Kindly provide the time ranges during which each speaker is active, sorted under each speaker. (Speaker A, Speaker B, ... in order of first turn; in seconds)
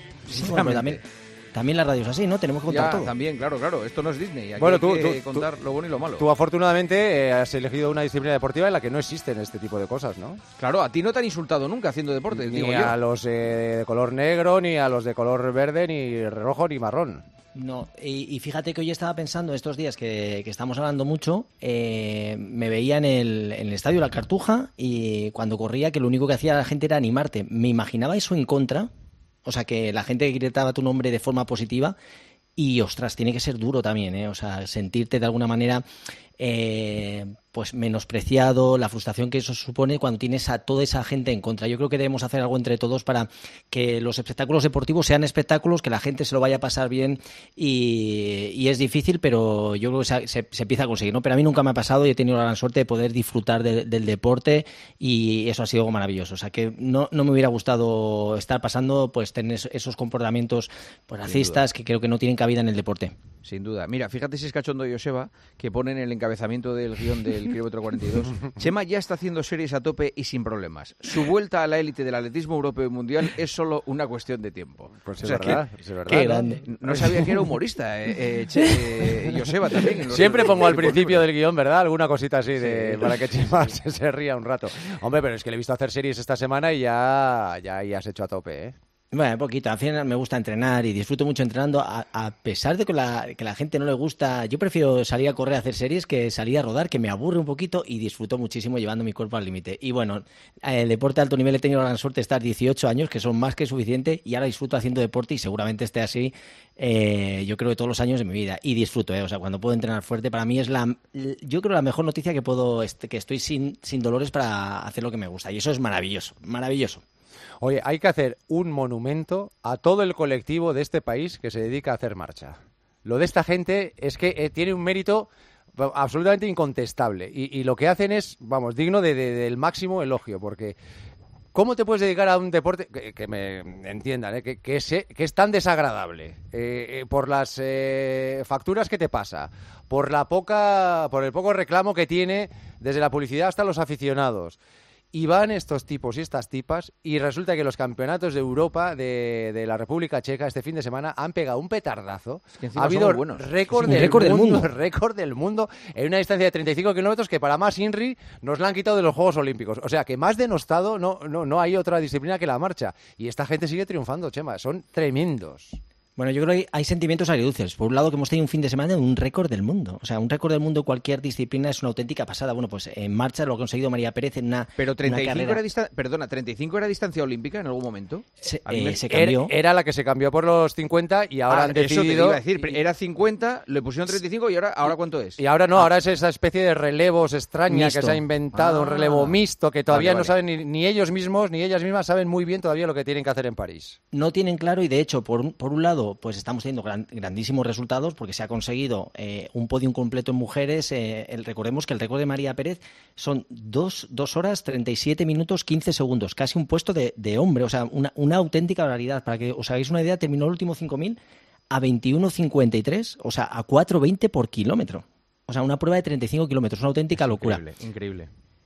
Speaker A: 0.3-1.0, 2.7-6.3, 10.6-13.0, 61.2-61.6, 63.4-81.2, 82.6-83.1, 152.6-154.3, 174.8-179.1, 181.5-185.4, 188.6-189.4, 189.9-190.3, 217.2-218.3
Speaker B: 0.3-1.0, 1.5-3.1, 17.6-28.9, 29.4-31.9, 32.6-35.8, 36.4-63.1, 76.2-76.6, 89.1-117.0, 153.9-154.7, 166.2-175.6, 178.4-179.5, 187.7-188.2, 194.1-211.2, 211.7-217.6
Speaker C: 4.6-5.5, 6.2-10.4, 12.3-17.2, 75.0-76.2, 80.1-88.8, 117.6-130.8, 131.5-144.6, 145.1-165.8, 179.1-182.7, 185.4-194.0